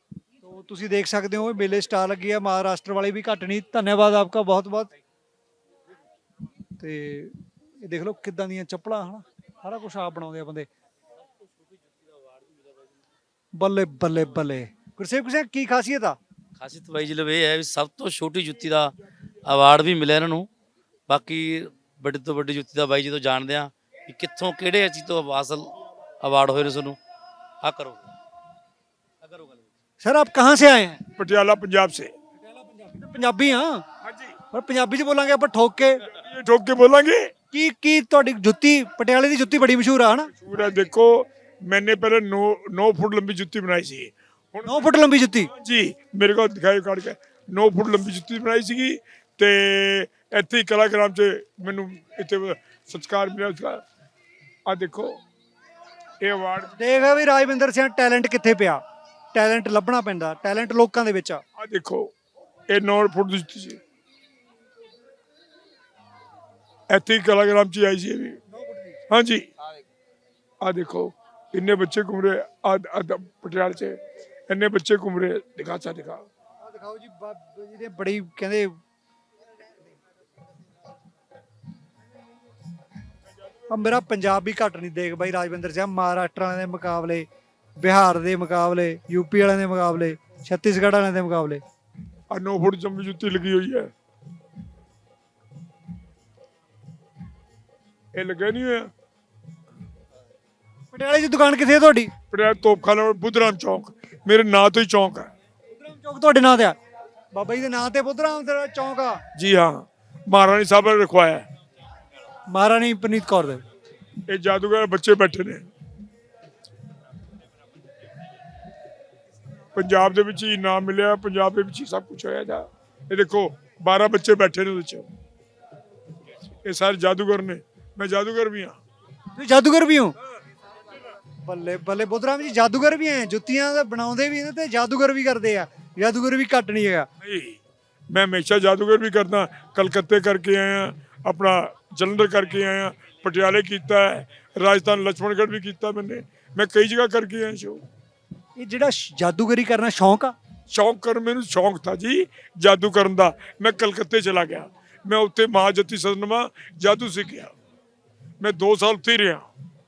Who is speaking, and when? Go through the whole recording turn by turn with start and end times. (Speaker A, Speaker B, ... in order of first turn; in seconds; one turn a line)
Speaker A: 0.4-4.9
Speaker A: 6.8-10.7
Speaker A: 13.6-16.2
Speaker B: 16.6-20.5
Speaker B: 21.1-27.0
Speaker B: 27.6-28.1
Speaker B: 29.2-29.7
Speaker A: 30.0-31.0
Speaker C: 31.2-32.1
Speaker A: 32.4-33.9
Speaker C: 34.0-34.4
Speaker A: 34.5-36.1
Speaker C: 36.1-37.3
Speaker A: 37.5-40.3
Speaker C: 40.3-44.9
Speaker A: 44.7-45.5
Speaker C: 45.6-53.8
Speaker C: 54.7-55.2
Speaker C: 56.2-56.7
Speaker A: 56.7-58.8
Speaker A: 59.3-61.4
Speaker C: 61.6-62.1
Speaker C: 62.7-63.8
Speaker C: 66.9-68.4
Speaker A: 68.5-69.0
Speaker C: 69.1-69.5
Speaker C: 70.6-76.3
Speaker A: 76.6-78.8
Speaker A: 83.7-87.3
Speaker A: 87.8-91.6
Speaker C: 92.3-93.9
Speaker C: 98.1-98.9
Speaker A: 100.9-102.1
Speaker C: 102.3-105.3
Speaker A: 105.7-106.8
Speaker A: 107.3-109.2
Speaker C: 109.3-111.5
Speaker A: 112.5-113.6
Speaker C: 114.3-115.7
Speaker C: 119.7-125.1
Speaker C: 126.6-128.8
Speaker A: 129.3-130.2
Speaker A: 131.4-137.1
Speaker C: 137.2-137.6
Speaker C: 138.1-147.8
Speaker A: 148.6-150.3
Speaker C: 150.7-157.5
Speaker C: 158.4-159.5